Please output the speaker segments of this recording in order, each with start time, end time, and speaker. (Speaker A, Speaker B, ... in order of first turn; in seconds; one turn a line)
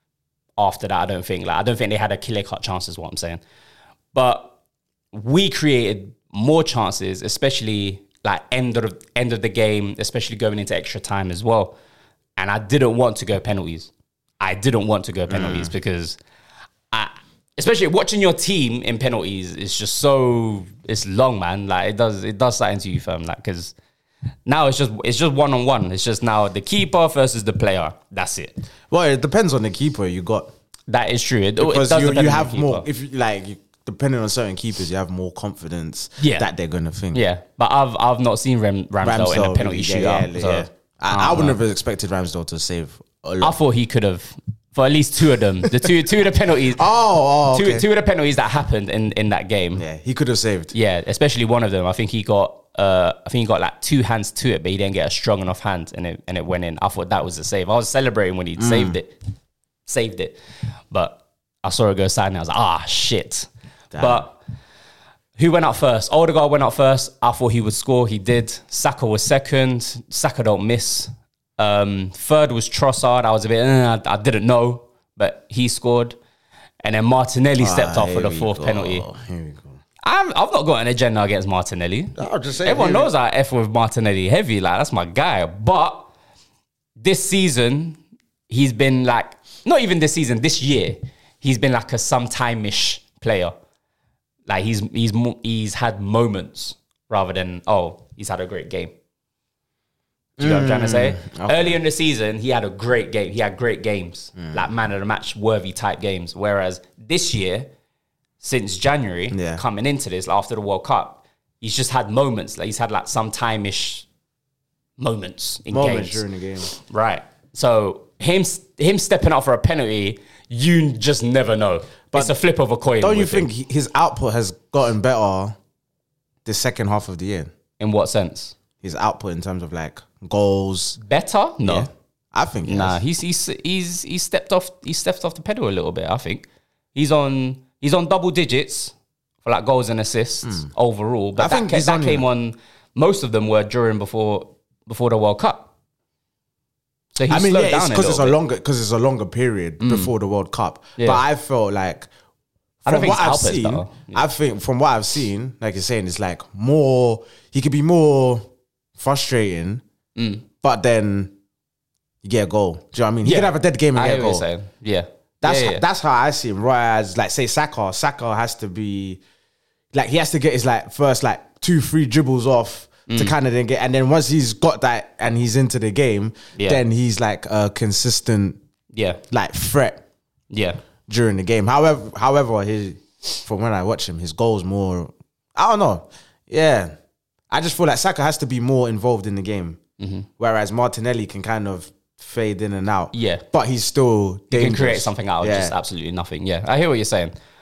Speaker A: 0.6-3.4
Speaker A: 4.1-4.5
Speaker A: 5.1-11.7
Speaker A: 12.4-16.2
Speaker B: 15.3-15.7
Speaker A: 16.9-23.7
Speaker A: 24.4-28.6
Speaker B: 28.9-30.5
Speaker A: 30.9-32.9
Speaker B: 31.6-37.2
Speaker A: 36.2-36.5
Speaker A: 37.1-41.6
Speaker B: 39.0-43.6
Speaker A: 43.4-46.8
Speaker B: 46.7-47.8
Speaker A: 47.5-49.8
Speaker B: 49.8-50.7
Speaker A: 50.7-59.1
Speaker B: 58.6-59.0
Speaker A: 59.9-60.3
Speaker A: 60.9-64.3
Speaker B: 63.9-64.2
Speaker A: 65.4-76.2
Speaker A: 76.8-79.0
Speaker B: 77.6-79.8
Speaker A: 80.0-86.1
Speaker B: 82.2-83.1
Speaker A: 87.0-93.5
Speaker A: 94.5-98.9
Speaker B: 100.4-101.8
Speaker A: 100.4-107.7
Speaker A: 108.4-114.0
Speaker B: 109.3-109.6
Speaker A: 115.0-123.5
Speaker B: 115.7-116.7
Speaker B: 123.0-125.6
Speaker B: 126.4-127.5
Speaker A: 127.8-128.5
Speaker B: 128.8-131.0
Speaker A: 131.0-131.9
Speaker B: 131.6-133.0
Speaker A: 132.7-138.9
Speaker A: 139.4-145.7
Speaker B: 141.4-142.2
Speaker A: 147.1-148.4
Speaker B: 147.3-152.1
Speaker A: 149.8-150.1
Speaker A: 151.0-151.2
Speaker B: 152.8-158.4
Speaker A: 152.8-154.2
Speaker B: 159.0-159.8
Speaker A: 160.2-160.4
Speaker B: 160.6-161.3
Speaker B: 162.2-164.4
Speaker A: 163.2-165.8
Speaker B: 165.4-169.2
Speaker B: 169.9-178.6
Speaker A: 173.1-173.3
Speaker A: 178.9-179.2
Speaker B: 179.3-180.0
Speaker A: 180.5-180.8
Speaker B: 181.1-186.9
Speaker B: 187.5-189.8
Speaker A: 190.0-190.3
Speaker B: 190.4-195.7
Speaker A: 193.1-193.4
Speaker A: 194.5-197.3